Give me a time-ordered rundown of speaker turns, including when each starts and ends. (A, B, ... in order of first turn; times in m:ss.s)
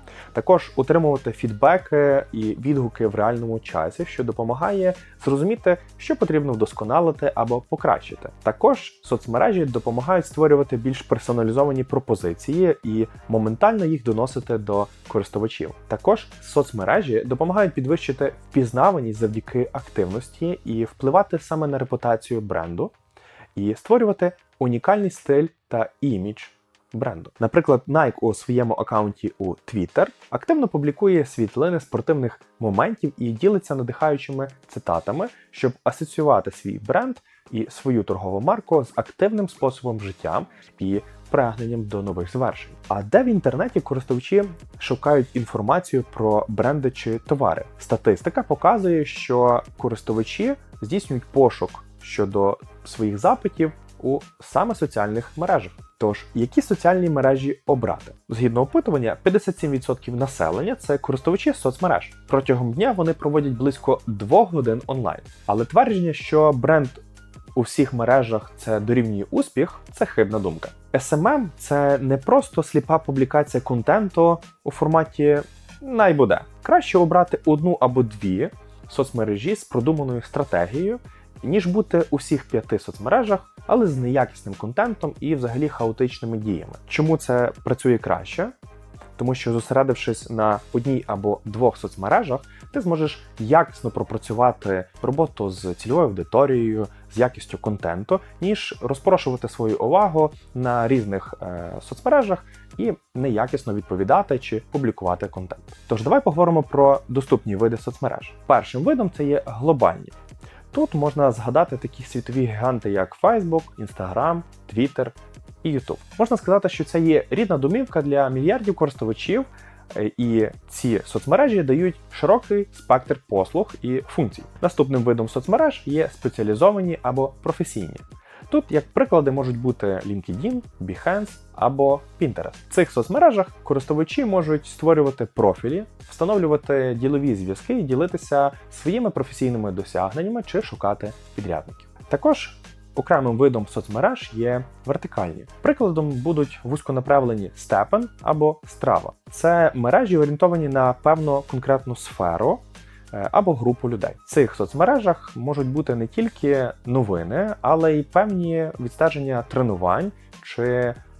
0:00.3-0:22.9 A
0:23.5-1:07.0 A
1:07.5-1:28.5 A
1:29.2-1:50.1 A
1:50.7-2:41.0 A